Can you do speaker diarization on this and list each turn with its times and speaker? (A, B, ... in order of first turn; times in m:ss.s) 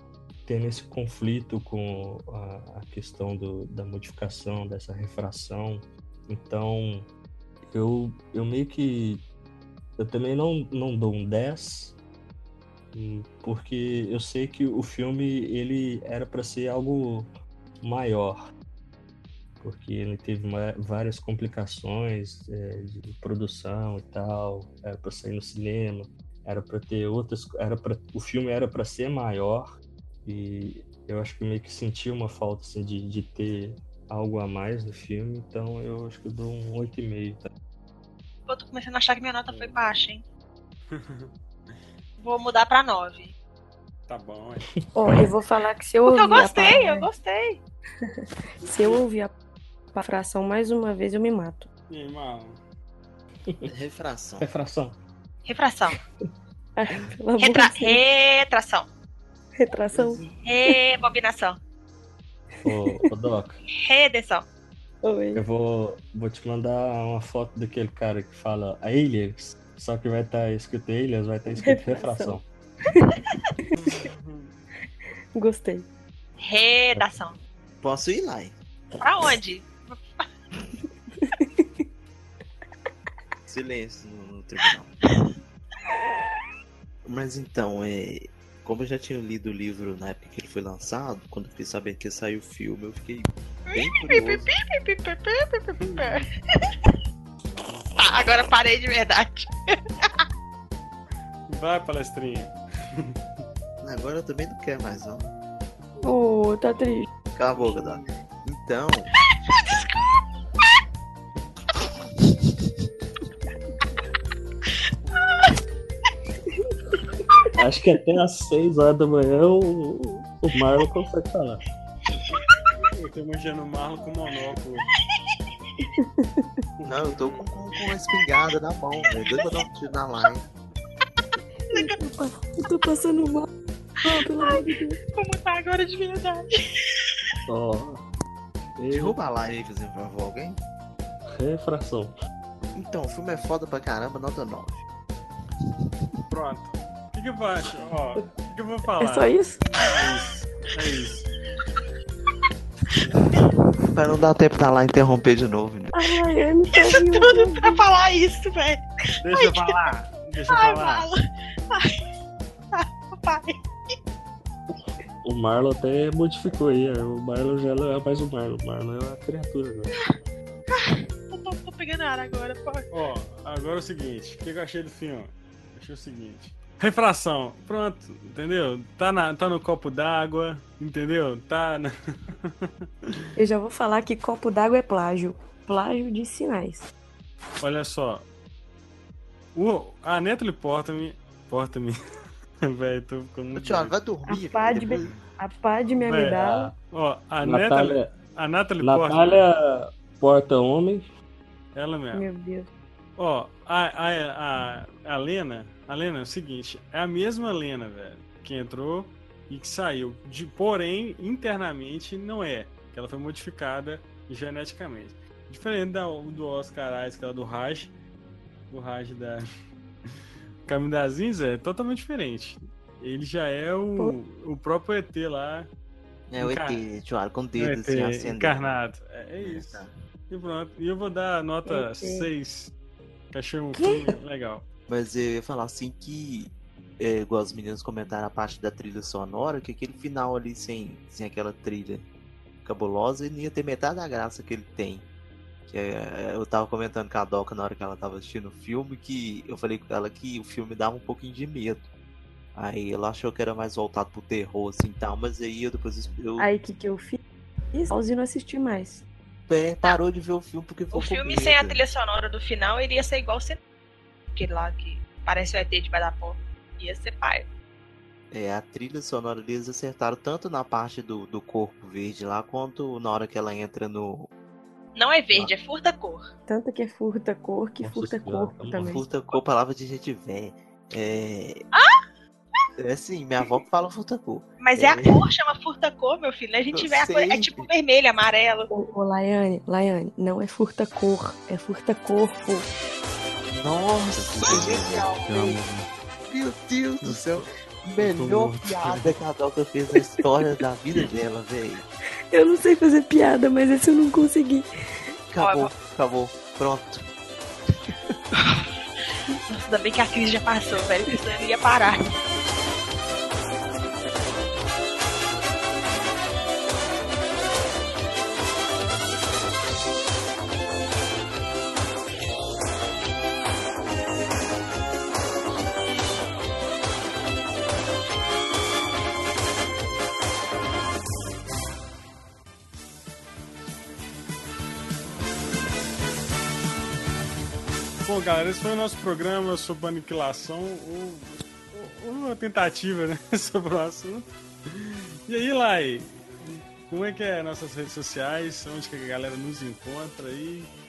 0:00.5-0:07.1 A
0:07.7-0:09.2 A
0:10.0-0:12.0 A
0:12.9-0:17.3 A
0:17.8-0:18.4 A
0:19.6-0:37.5 A
0:38.5-0:40.2 B
0:39.5-0:39.8 C
0:40.9-0:41.3 C
0:42.2-0:43.3 B
0:44.1-0:44.7 C
0:44.8-0:45.2 A
0:45.0-0:47.1 D
0:46.0-0:47.6 B
0:48.6-0:49.3 D
0:50.0-0:51.7 D
0:51.9-0:52.6 C
0:53.7-0:54.5 E
0:54.4-0:55.0 A
0:55.5-0:56.0 B
0:56.8-0:58.0 D
0:57.4-0:58.9 B
0:59.6-1:00.2 D
1:00.4-1:01.6 B
1:02.6-1:03.6 A
1:02.7-1:03.1 D
1:03.8-1:04.4 B
1:05.0-1:05.4 D
1:05.4-1:12.4 A
1:11.6-1:14.0 D
1:13.8-1:14.6 C
1:15.4-1:15.9 D
1:16.4-1:17.4 B
1:17.8-1:18.6 E
1:19.0-1:20.3 B
1:21.2-1:21.9 D
1:23.5-1:25.0 E
1:27.0-1:34.5 E
1:33.7-1:36.7 B
1:35.8-1:36.2 C
1:38.0-1:39.8 B
1:41.5-1:43.2 C
1:43.8-1:45.3 E
1:46.0-1:47.1 D
1:47.3-1:49.1 E
1:47.5-1:48.1 C
1:49.3-1:49.9 B
1:55.2-1:55.5 B
1:57.6-2:01.6 A
2:02.3-2:04.9 C
2:05.8-2:06.6 D
2:06.8-2:07.6 C
2:06.9-2:10.4 E
2:09.0-2:09.6 B
2:11.7-2:13.5 D
2:14.0-2:15.0 D
2:14.1-2:16.5 B
2:17.5-2:18.0 A
2:18.8-2:19.2 A
2:18.9-2:20.6 E
2:21.3-2:22.1 A
2:22.8-2:24.8 E
2:26.3-2:31.3 C
2:29.0-2:29.7 D
2:33.1-2:36.1 E
2:35.9-2:37.8 D
2:36.8-2:38.8 B
2:39.2-2:41.1 C
2:39.3-2:39.8 B
2:40.5-2:41.2 B
2:41.7-2:42.0 B
2:42.7-2:43.9 B
2:45.2-2:50.0 A
2:50.7-2:52.9 B
2:52.9-3:02.9 C
3:03.4-3:06.9 D
3:07.6-3:08.2 C
3:09.6-3:12.0 C
3:12.7-3:14.0 C
3:13.5-3:15.1 E
3:14.3-3:16.8 D
3:16.0-3:16.4 C
3:16.2-3:16.7 A
3:16.9-3:19.4 C
3:17.4-3:18.1 A
3:18.8-3:21.1 A
3:21.8-3:22.2 C
3:22.1-3:22.7 D
3:23.2-3:37.9 C
3:38.7-3:39.5 C
3:40.7-3:45.7 C
3:46.3-3:48.8 E
3:46.4-3:46.8 C
3:47.6-3:52.7 C
3:49.4-3:49.9 E
3:51.7-3:52.3 D
3:53.3-3:54.6 C
3:53.7-3:54.2 D
3:54.9-4:02.1 E
4:02.6-4:05.0 E
4:05.7-4:11.9 E
4:12.6-4:16.5 E
4:16.4-4:17.2 D
4:17.7-4:19.1 D
4:19.5-4:21.8 E
4:20.9-4:23.6 B
4:24.3-4:27.5 B
4:28.3-4:34.3 E
4:35.0-4:36.3 B
4:36.5-4:39.0 D
4:37.8-4:39.4 A
4:38.8-4:41.6 E
4:41.7-4:42.0 B
4:42.8-4:45.2 E
4:44.6-4:48.7 B
4:46.7-4:47.7 E
4:48.7-4:52.7 D
4:53.5-5:01.9 E
4:54.4-4:55.3 B
4:54.5-4:54.8 A
4:57.0-4:59.1 A
5:02.3-5:04.7 D
5:05.3-5:07.1 E
5:05.4-5:05.7 B
5:07.7-5:08.0 E
5:09.5-5:12.1 B
5:38.0-5:50.7 C